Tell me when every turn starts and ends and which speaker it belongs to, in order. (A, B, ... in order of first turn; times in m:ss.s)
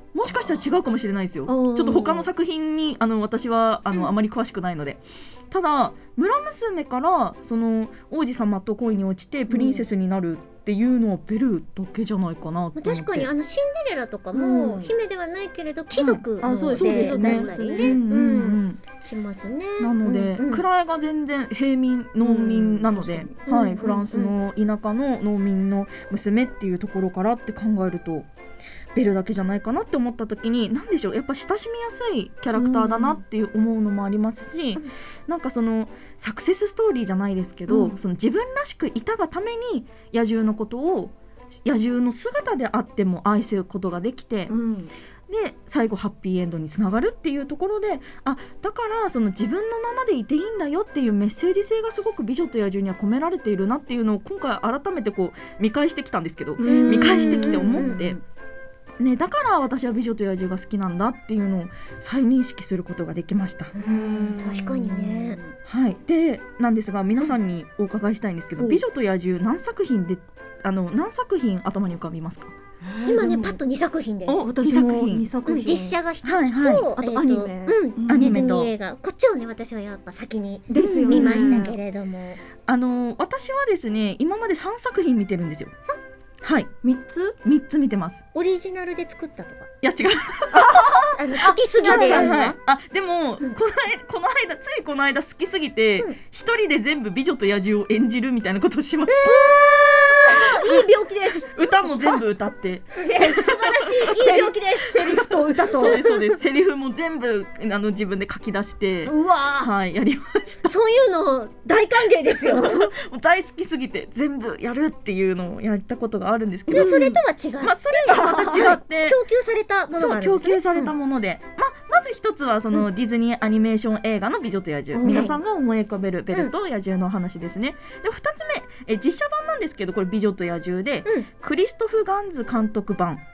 0:00.1-0:13.3 A
0:00.3-0:00.6 B
0:01.5-0:02.3 B
0:09.5-0:09.9 B
0:12.8-0:20.6 C
0:14.3-0:14.9 B
0:15.9-0:18.0 B
0:16.7-0:18.8 A
0:19.8-0:28.3 A
0:22.2-0:23.4 B
0:23.5-0:24.3 C
0:28.9-0:44.5 A
0:32.5-0:33.2 B
0:37.7-0:38.0 B
0:44.5-0:44.9 B
0:45.3-0:58.2 A
0:56.6-0:58.2 B
0:56.6-0:58.0 C
0:59.0-1:03.7 A
1:03.7-1:05.4 C
1:03.8-1:05.5 B
1:05.6-1:12.5 A
1:08.6-1:08.8 B
1:12.8-1:13.6 B
1:13.0-1:14.5 C
1:14.3-1:15.3 A
1:14.4-1:16.0 B
1:15.4-1:22.4 C
1:16.2-1:16.9 A
1:17.0-1:18.5 B
1:18.0-1:18.7 A
1:20.7-1:21.8 B
1:21.1-1:21.6 A
1:22.6-1:25.7 A
1:26.4-1:26.7 A
1:26.8-1:27.3 B
1:27.4-1:28.2 A
1:28.3-1:29.7 C
1:29.8-1:30.9 A
1:30.5-1:32.5 B
1:31.2-1:32.3 C
1:31.8-1:39.6 A
1:39.2-1:41.5 C
1:40.3-1:40.8 A
1:41.5-1:43.9 A
1:43.0-1:43.4 B
1:43.2-1:44.9 C
1:44.0-1:46.0 B
1:45.0-1:50.7 A
1:45.8-1:46.2 C
1:49.1-1:49.7 B
1:50.6-1:52.9 C
1:52.6-1:57.1 A
1:56.7-2:00.9 C
1:56.7-1:57.2 B
1:57.6-1:59.2 A
1:58.1-1:58.6 B
2:00.0-2:13.2 A
2:05.0-2:05.4 C